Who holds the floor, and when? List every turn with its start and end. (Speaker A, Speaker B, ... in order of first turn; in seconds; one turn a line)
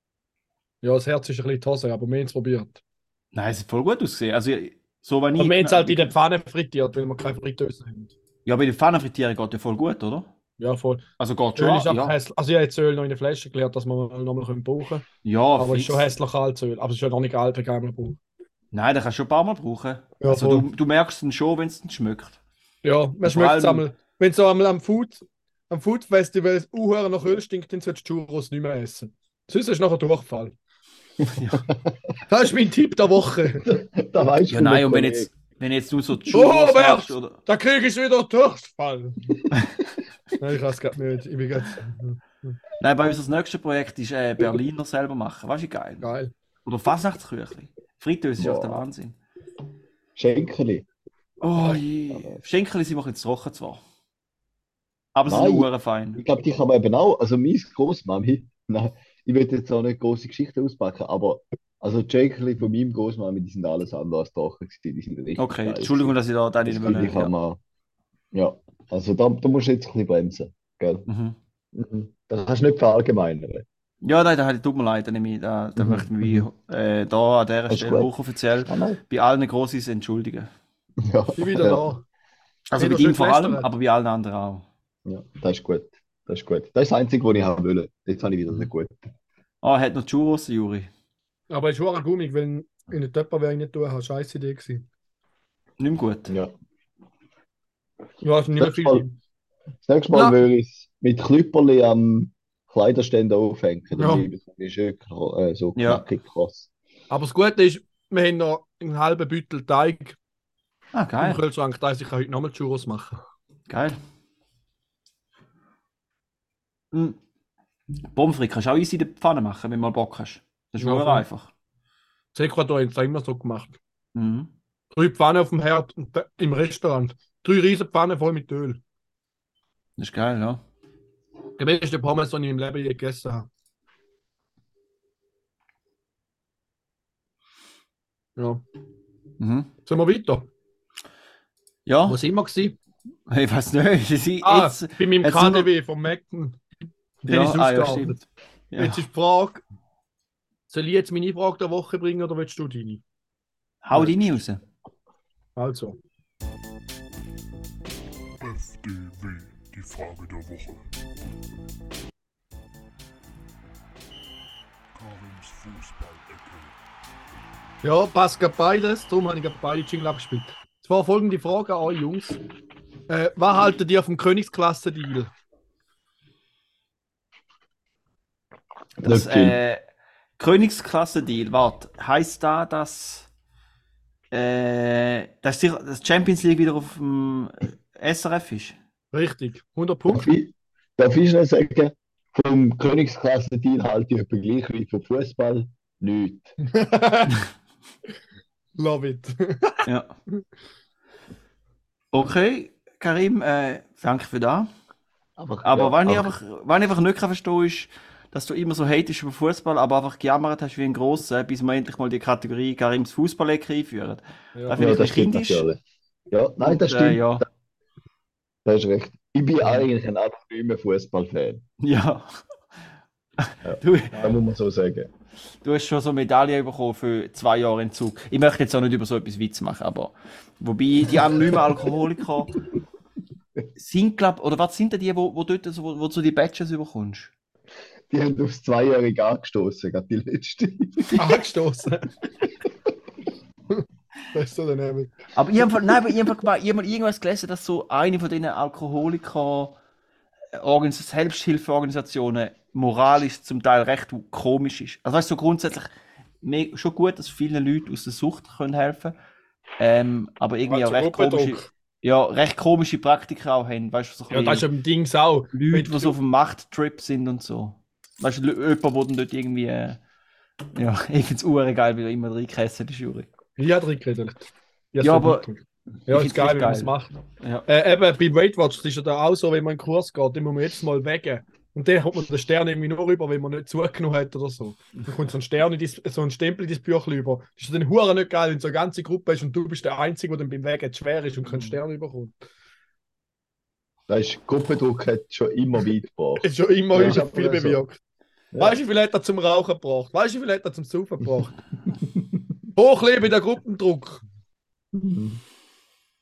Speaker A: 0.8-2.8
Speaker B: 3.3-6.2
Speaker A: 5.4-8.1
Speaker B: 8.5-10.3
Speaker A: 10.6-11.0
Speaker B: 11.2-12.2
Speaker A: 11.6-15.1
Speaker B: 15.2-16.1
Speaker A: 15.6-18.2
Speaker B: 18.7-22.4
Speaker A: 20.2-20.7
Speaker A: 22.8-30.6
Speaker B: 23.2-23.9
Speaker B: 31.3-31.7
Speaker A: 32.3-33.7
Speaker C: 33.6-35.3
Speaker B: 34.5-37.4
Speaker A: 36.3-39.3
Speaker A: 40.4-42.6
Speaker B: 42.8-46.1
Speaker A: 46.0-46.3
Speaker B: 46.6-49.2
Speaker C: 48.4-48.8
Speaker C: 50.2-50.9
Speaker B: 51.4-53.8
Speaker C: 52.1-52.4
Speaker B: 55.1-56.2
Speaker C: 55.3-66.1
Speaker B: 65.4-67.3
Speaker C: 66.7-67.6
Speaker C: 68.3-71.1
Speaker B: 71.1-71.4
Speaker C: 71.7-73.7
Speaker B: 74.0-80.5
Speaker C: 75.8-76.5
Speaker C: 77.7-79.0
Speaker C: 81.0-81.8
Speaker A: 81.4-82.0
Speaker B: 82.7-84.7
Speaker A: 82.8-83.7
Speaker C: 85.0-89.1
Speaker B: 89.6-90.9
Speaker A: 91.5-94.9
Speaker B: 95.8-96.3
Speaker A: 98.2-99.1
Speaker C: 98.6-99.0
Speaker C: 99.8-106.7
Speaker A: 100.1-100.4
Speaker A: 104.0-104.2
Speaker B: 105.8-106.0
Speaker A: 107.1-110.2
Speaker B: 110.9-111.4
Speaker A: 111.2-113.2
Speaker B: 113.7-114.0
Speaker B: 116.9-117.2
Speaker B: 118.1-121.5
Speaker A: 120.8-121.2
Speaker A: 122.3-123.8
Speaker B: 124.2-124.5
Speaker A: 124.9-128.8
Speaker B: 130.0-130.6
Speaker A: 131.6-133.5
Speaker A: 138.4-138.6
Speaker B: 139.4-139.7
Speaker A: 139.9-140.5
Speaker B: 141.9-142.2
Speaker A: 142.1-142.8
Speaker B: 143.3-145.7
Speaker A: 144.4-146.6
Speaker A: 147.2-148.2
Speaker B: 147.3-149.0
Speaker A: 148.8-149.6
Speaker A: 150.7-153.0
Speaker B: 153.8-154.6
Speaker A: 155.6-156.0
Speaker D: 158.4-160.9
Speaker D: 164.9-166.8
Speaker A: 167.8-172.4
Speaker A: 173.1-175.3
Speaker B: 179.0-179.8
Speaker C: 179.0-179.6
Speaker B: 180.4-183.3
Speaker B: 184.3-188.8
Speaker A: 189.1-190.3
Speaker C: 190.1-196.6
Speaker A: 196.8-197.4
Speaker A: 198.8-199.8
Speaker B: 199.9-200.1
Speaker B: 202.1-204.7
Speaker C: 205.4-206.3
Speaker B: 205.6-215.7
Speaker C: 214.7-217.5
Speaker B: 216.6-217.4
Speaker C: 218.7-221.6
Speaker B: 221.8-222.3
Speaker B: 223.4-224.2
Speaker C: 223.7-225.1
Speaker B: 225.6-232.6
Speaker B: 233.8-237.3
Speaker C: 238.1-241.4
Speaker A: 241.2-242.1
Speaker A: 243.7-245.2
Speaker B: 245.3-249.8
Speaker B: 250.6-255.9
Speaker B: 256.4-259.1
Speaker B: 259.8-264.7
Speaker A: 260.7-261.7
Speaker A: 264.3-266.1
Speaker B: 265.5-270.0
Speaker B: 270.8-273.3
Speaker A: 273.6-277.1
Speaker B: 275.0-275.5
Speaker B: 276.1-277.7
Speaker A: 277.7-292.4
Speaker C: 294.1-297.8
Speaker A: 296.4-298.0
Speaker C: 298.5-298.8
Speaker A: 298.6-301.6
Speaker C: 302.0-302.5
Speaker A: 302.8-304.2
Speaker C: 304.9-305.4